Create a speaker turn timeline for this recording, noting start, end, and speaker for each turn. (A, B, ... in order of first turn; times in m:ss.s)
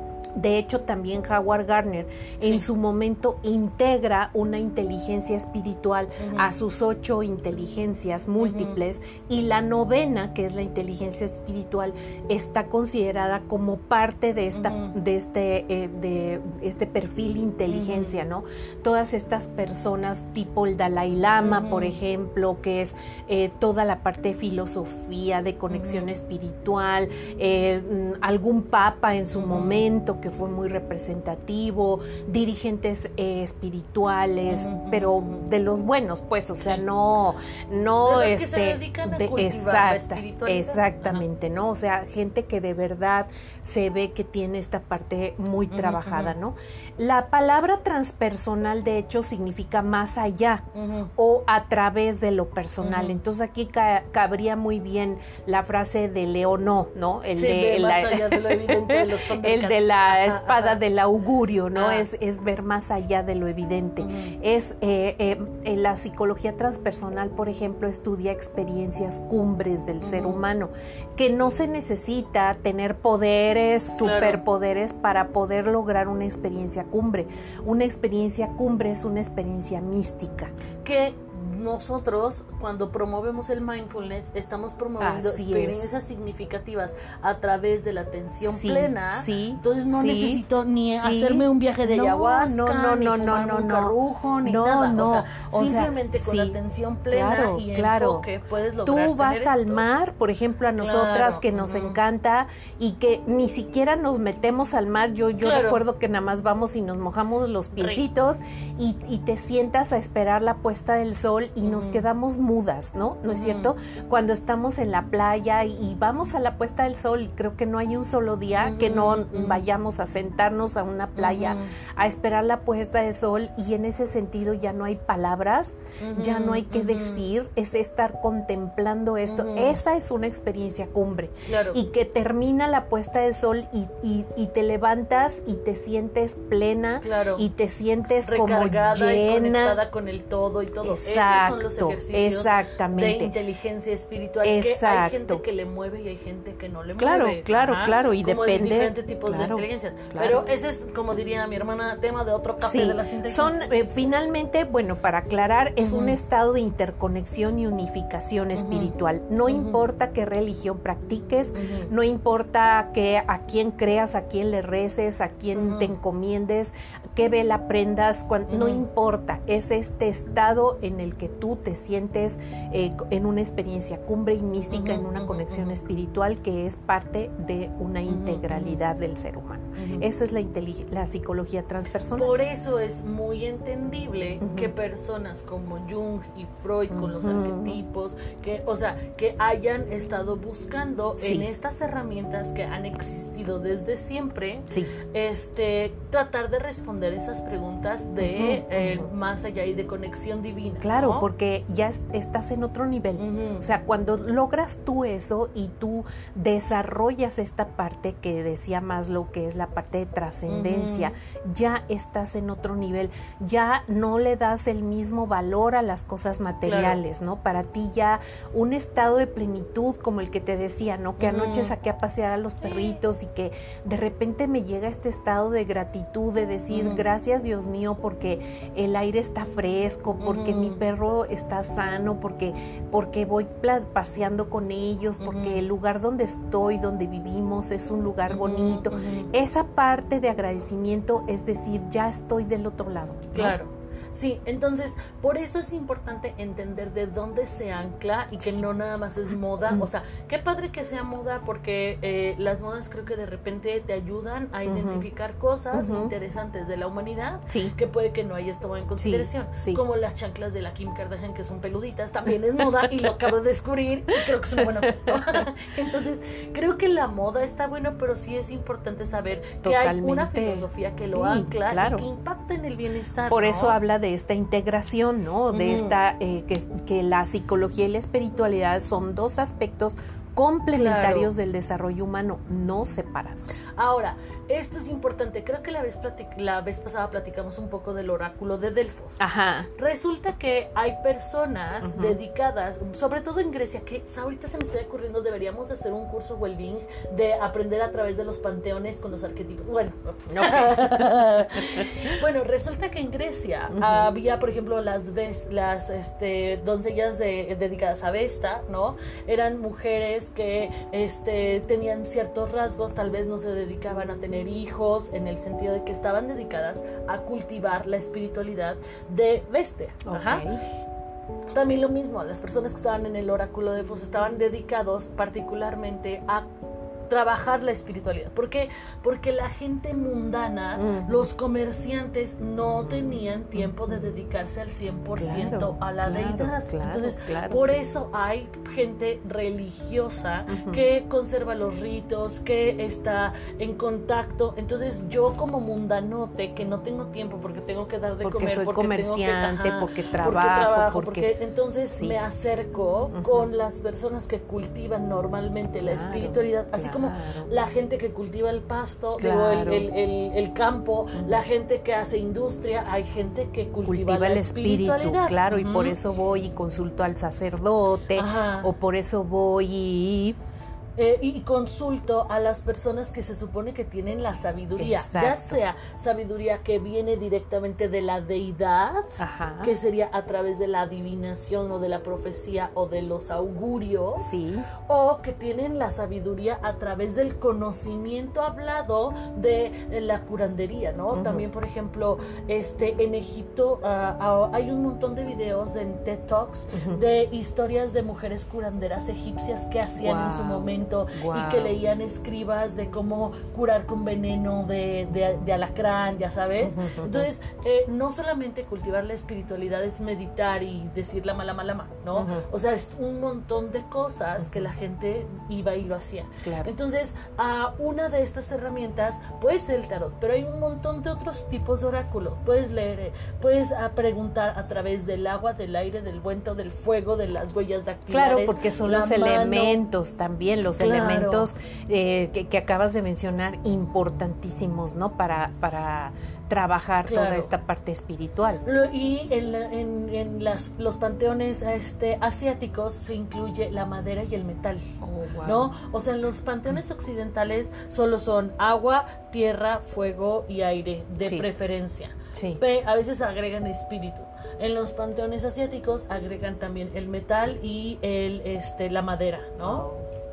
0:00.4-1:20.5 A
0:06.2-0:06.5 B
0:08.4-0:08.8 B
0:14.5-0:14.9 B
0:17.7-0:18.2 B
0:21.4-0:22.0 B
0:25.7-0:26.1 B
0:29.3-0:29.8 B
0:34.5-0:35.4 B
0:36.6-0:36.8 B
0:38.0-0:41.2 B
0:45.7-0:46.3 B
0:50.7-0:51.1 B
0:52.8-0:53.2 B
0:57.4-1:00.8 B
1:01.7-1:02.1 B
1:04.0-1:04.3 B
1:10.0-1:10.4 B
1:14.0-1:14.4 B
1:20.8-1:39.8 B
1:25.0-1:26.0 A
1:28.4-1:30.4 A
1:30.9-1:36.6 A
1:37.1-1:38.2 A
1:38.8-2:19.8 A
1:40.8-1:42.0 B
1:45.4-1:45.8 B
1:51.6-1:52.0 B
1:53.3-1:53.7 B
1:58.6-1:59.6 B
2:01.2-2:01.7 B
2:06.0-2:07.2 B
2:09.2-2:09.8 B
2:11.4-2:11.8 B
2:17.0-2:17.4 B
2:18.2-2:33.6 B
2:20.8-2:23.3 A
2:24.4-2:25.4 A
2:27.0-2:30.4 A
2:32.6-3:02.3 A
2:35.8-2:36.2 B
2:38.5-2:38.9 B
2:39.5-2:39.8 B
2:41.5-2:41.9 B
2:45.5-2:45.9 B
2:48.5-2:48.8 B
2:54.7-2:55.8 B
2:58.1-2:58.8 B
2:59.8-3:00.0 B
3:02.1-3:21.3 B
3:04.4-3:04.7 A
3:06.9-3:07.8 A
3:11.2-3:11.5 A
3:18.2-3:19.1 A
3:20.8-4:03.6 A
3:23.2-3:23.7 B
3:30.5-3:31.1 B
3:36.6-3:37.0 B
3:41.2-3:41.7 B
3:46.7-3:47.0 B
3:50.2-3:50.8 B
3:55.2-3:55.6 B
3:58.3-3:59.3 B
4:03.3-4:33.8 B
4:08.4-4:08.6 A
4:14.6-4:15.0 A
4:15.7-4:16.1 A
4:17.5-4:17.7 A
4:19.0-4:19.8 A
4:22.6-4:23.1 A
4:24.6-4:25.4 A
4:29.6-4:32.0 A
4:33.3-4:43.6 A
4:35.5-4:35.9 B
4:40.7-4:41.3 B
4:43.8-4:49.2 B
4:49.2-4:49.7 A
4:49.8-5:20.4 B
4:51.8-4:52.2 A
5:00.3-5:02.2 A
5:03.7-5:04.1 A
5:20.0-5:20.6 A
5:21.5-5:26.5 B
5:27.1-6:06.0 B
5:30.8-5:31.3 A
5:32.8-5:33.7 A
5:35.2-5:37.6 A
5:40.5-5:40.8 A
5:48.2-5:51.3 A
5:51.9-5:52.2 A
5:53.1-5:53.5 A
5:55.8-5:57.5 A
5:59.2-5:59.8 A
6:01.1-6:01.4 A
6:03.8-6:10.4 A
6:08.1-6:08.7 B
6:11.0-6:24.3 B
6:14.8-6:15.6 A
6:19.2-6:19.7 A
6:24.2-6:24.7 A
6:24.8-7:09.8 B
6:31.1-6:31.4 A
6:36.7-6:37.0 A
6:40.0-6:41.8 A
6:46.6-6:47.3 A
6:52.1-6:52.4 A
6:54.4-6:54.7 A
6:56.4-6:56.7 A
7:08.1-7:18.6 A
7:10.8-7:11.5 B
7:17.0-7:17.5 B
7:18.6-7:39.8 B
7:25.0-7:25.7 A
7:32.3-7:32.6 A
7:39.6-7:40.1 A